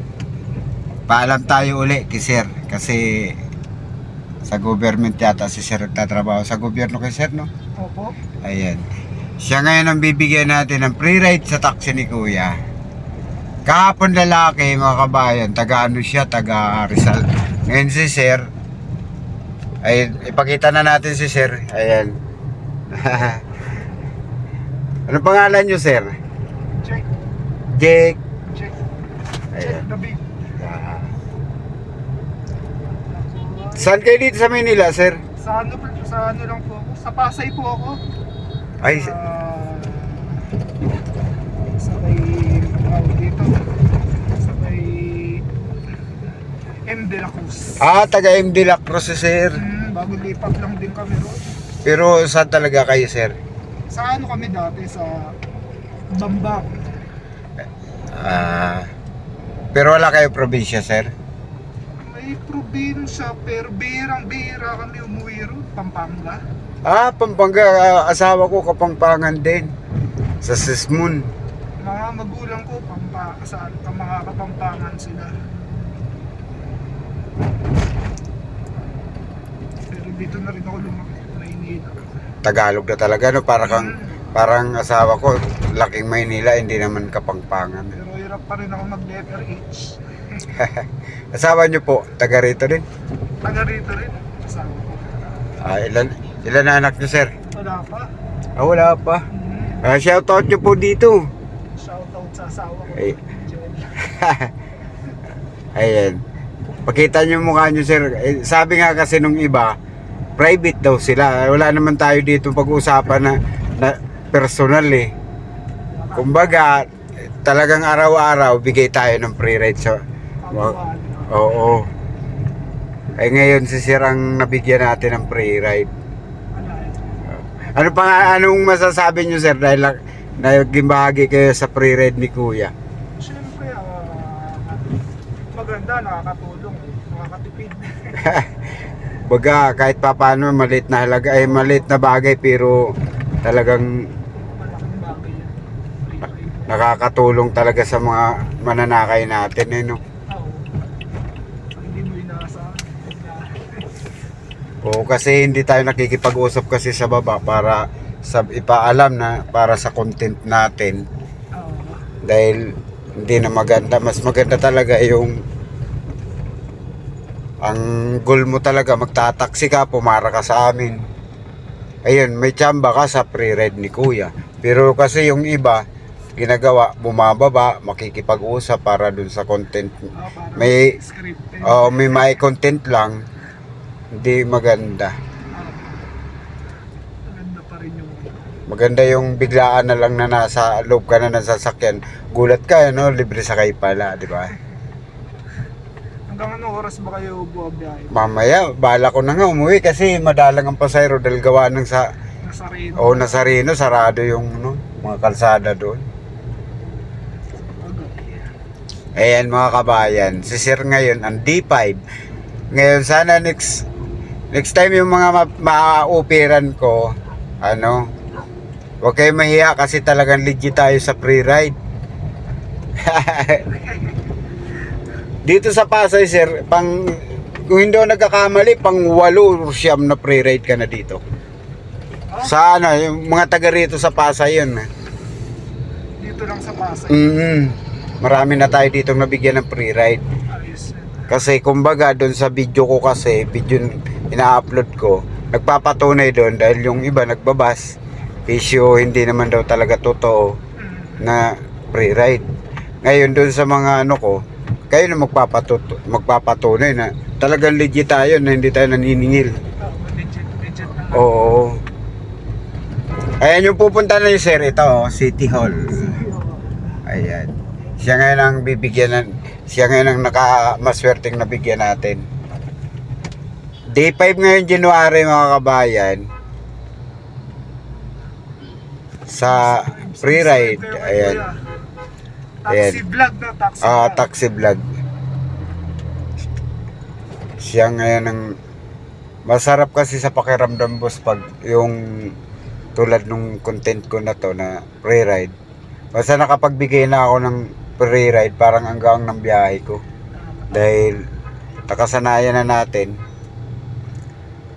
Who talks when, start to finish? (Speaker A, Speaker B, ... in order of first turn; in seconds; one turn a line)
Speaker A: 1.1-3.4
Speaker A: 4.5-7.5
Speaker B: 7.8-8.2
Speaker A: 8.4-8.8
Speaker A: 9.4-12.5
Speaker A: 13.7-18.4
Speaker A: 19.8-22.1
Speaker A: 22.9-23.4
Speaker A: 25.1-26.1
Speaker B: 26.8-27.1
Speaker A: 27.7-28.2
Speaker B: 28.5-28.8
Speaker A: 29.6-29.8
Speaker B: 29.6-30.4
Speaker A: 30.6-31.1
Speaker B: 33.1-33.9
Speaker A: 33.8-35.2
Speaker B: 35.4-38.0
Speaker A: 38.8-39.1
Speaker B: 38.9-40.4
Speaker B: 41.7-43.7
Speaker B: 44.3-45.4
Speaker B: 46.9-47.8
Speaker A: 47.8-49.6
Speaker B: 49.6-51.4
Speaker A: 51.9-53.4
Speaker B: 53.9-55.4
Speaker B: 56.1-56.8
Speaker A: 58.2-58.9
Speaker A: 59.7-61.1
Speaker B: 62.0-66.4
Speaker A: 66.9-69.7
Speaker A: 70.4-71.2
Speaker B: 71.8-75.3
Speaker B: 79.9-82.0
Speaker A: 82.4-88.0
Speaker B: 83.7-84.3
Speaker B: 87.9-90.4
Speaker A: 90.5-92.8
Speaker B: 93.4-95.2
Speaker A: 95.6-97.3
Speaker B: 97.5-98.1
Speaker A: 98.6-99.2
Speaker B: 99.3-99.8
Speaker A: 99.8-101.2
Speaker B: 101.8-104.1
Speaker A: 104.1-104.5
Speaker A: 105.8-106.2
Speaker A: 106.8-109.8
Speaker A: 110.4-115.1
Speaker B: 115.9-116.6
Speaker A: 116.2-116.9
Speaker A: 117.4-120.0
Speaker B: 120.4-121.5
Speaker A: 121.3-121.9
Speaker A: 123.2-125.9
Speaker B: 126.5-127.9
Speaker A: 127.7-132.7
Speaker B: 133.2-134.9
Speaker B: 135.5-138.3
Speaker A: 138.2-138.5
Speaker A: 139.3-142.9
Speaker B: 141.4-142.0
Speaker A: 143.4-143.9
Speaker B: 144.6-146.9
Speaker A: 146.7-150.0
Speaker B: 150.3-150.8
Speaker B: 151.8-153.9
Speaker A: 154.8-161.1
Speaker B: 161.6-162.0
Speaker A: 162.2-165.4
Speaker A: 167.6-171.0
Speaker A: 172.1-175.8
Speaker A: 176.4-180.0
Speaker B: 180.1-182.3
Speaker A: 180.6-180.9
Speaker A: 181.6-183.2
Speaker A: 184.2-185.1
Speaker B: 185.6-186.1
Speaker B: 187.3-188.5
Speaker A: 188.7-194.5
Speaker B: 196.3-198.2
Speaker A: 198.1-202.1
Speaker B: 202.4-203.6
Speaker A: 203.0-206.1
Speaker B: 207.1-208.5
Speaker A: 209.2-212.0
Speaker A: 212.7-213.9
Speaker A: 214.5-218.1
Speaker A: 219.0-221.8
Speaker A: 223.0-223.7
Speaker A: 225.4-231.2
Speaker B: 232.3-232.6
Speaker A: 232.4-234.9
Speaker B: 236.2-237.3
Speaker A: 237.1-240.2
Speaker B: 240.5-241.3
Speaker A: 241.3-247.9
Speaker A: 248.5-250.6
Speaker B: 250.8-251.3
Speaker A: 251.2-252.5
Speaker A: 253.0-259.5
Speaker B: 259.8-261.3
Speaker A: 261.1-261.8
Speaker A: 263.4-266.1
Speaker B: 266.0-266.6
Speaker A: 267.1-267.5
Speaker A: 268.0-272.2
Speaker A: 274.0-276.2
Speaker A: 279.3-281.4
Speaker B: 279.4-281.5
Speaker B: 282.6-284.3
Speaker A: 282.7-283.0
Speaker A: 283.8-284.8
Speaker A: 287.6-288.5
Speaker A: 289.5-292.0
Speaker A: 293.0-295.5
Speaker A: 296.1-300.0
Speaker B: 300.4-301.1
Speaker A: 300.7-301.2
Speaker A: 301.9-303.1